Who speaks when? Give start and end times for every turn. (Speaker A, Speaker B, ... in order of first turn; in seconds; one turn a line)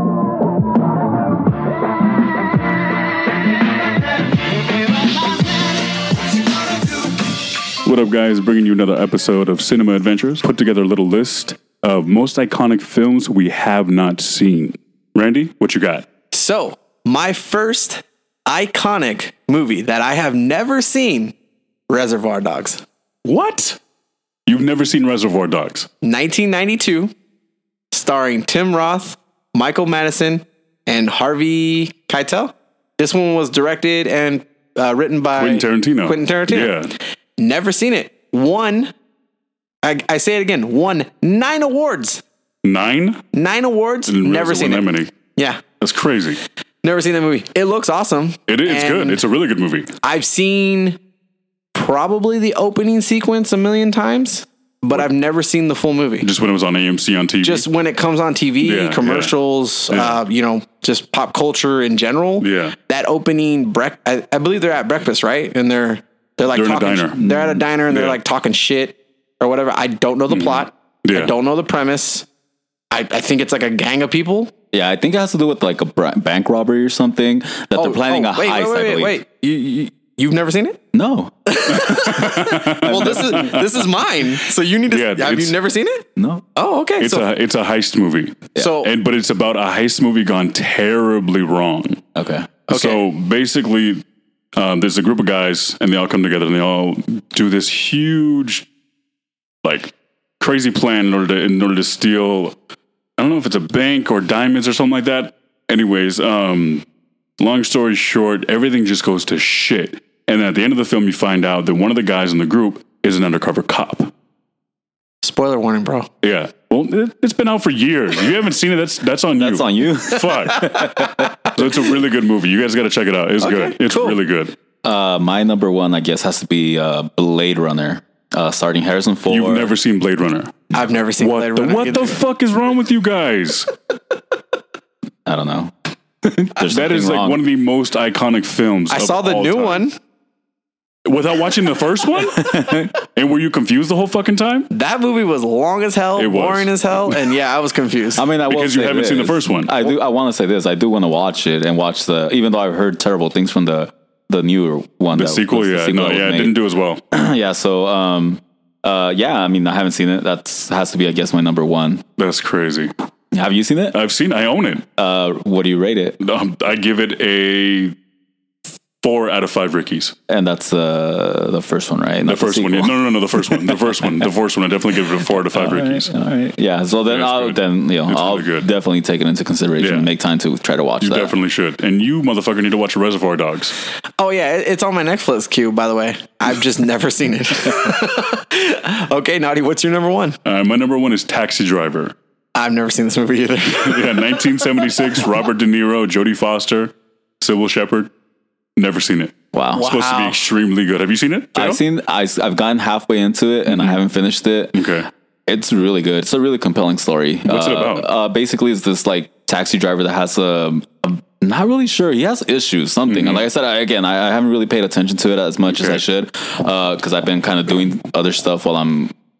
Speaker A: 7.8-16.1
Speaker B: 16.3-21.3
Speaker B: 21.9-22.8
Speaker A: 23.2-23.8
Speaker A: 24.5-25.9
Speaker B: 26.0-27.1
Speaker B: 27.9-36.9
Speaker A: 35.4-36.9
Speaker B: 37.4-38.9
Speaker B: 39.8-42.2
Speaker A: 42.6-43.2
Speaker B: 43.3-45.6
Speaker A: 44.1-45.1
Speaker A: 45.8-46.4
Speaker B: 46.8-49.2
Speaker A: 48.5-49.9
Speaker B: 50.0-51.0
Speaker B: 51.7-56.3
Speaker A: 56.2-57.6
Speaker B: 57.4-72.3
Speaker A: 58.6-59.3
Speaker A: 59.9-60.2
Speaker A: 62.4-62.8
Speaker A: 66.5-67.2
Speaker C: 67.2-67.6
Speaker A: 67.9-68.2
Speaker A: 71.0-71.3
Speaker B: 72.9-74.5
Speaker C: 74.7-79.2
Speaker B: 77.8-80.8
Speaker C: 80.9-81.3
Speaker B: 81.5-87.3
Speaker A: 81.7-83.9
Speaker C: 82.9-83.2
Speaker A: 84.9-85.5
Speaker C: 86.2-86.4
Speaker A: 87.0-92.0
Speaker B: 88.6-88.9
Speaker C: 92.2-92.5
Speaker B: 92.7-93.0
Speaker A: 92.7-94.0
Speaker A: 94.5-98.7
Speaker A: 99.6-102.6
Speaker A: 103.2-106.8
Speaker A: 107.4-114.1
Speaker B: 115.2-116.1
Speaker A: 116.2-121.0
Speaker C: 119.4-121.5
Speaker B: 120.7-121.1
Speaker A: 121.5-124.5
Speaker B: 123.4-124.2
Speaker C: 124.8-129.7
Speaker A: 129.3-130.7
Speaker B: 130.7-132.2
Speaker A: 131.2-133.7
Speaker C: 135.2-137.4
Speaker A: 136.6-139.9
Speaker B: 138.9-140.0
Speaker A: 141.1-142.5
Speaker C: 142.3-143.0
Speaker A: 143.2-144.7
Speaker B: 144.7-148.2
Speaker A: 146.2-147.2
Speaker C: 148.2-156.6
Speaker A: 148.5-149.7
Speaker A: 155.1-157.0
Speaker C: 157.1-162.0
Speaker A: 162.2-162.9
Speaker C: 163.3-164.0
Speaker A: 163.9-164.8
Speaker C: 165.0-166.2
Speaker A: 166.2-167.9
Speaker A: 169.0-170.1
Speaker C: 170.3-174.3
Speaker A: 172.3-176.1
Speaker C: 175.4-181.3
Speaker A: 177.1-178.7
Speaker A: 179.8-180.1
Speaker A: 181.0-183.8
Speaker B: 184.2-190.4
Speaker A: 190.4-192.1
Speaker B: 192.6-195.2
Speaker A: 193.7-198.1
Speaker A: 198.8-201.8
Speaker C: 199.5-199.9
Speaker B: 199.8-200.4
Speaker C: 201.6-219.1
Speaker A: 203.7-204.0
Speaker A: 204.7-205.1
Speaker A: 207.5-208.1
Speaker A: 213.1-213.4
Speaker A: 215.7-216.0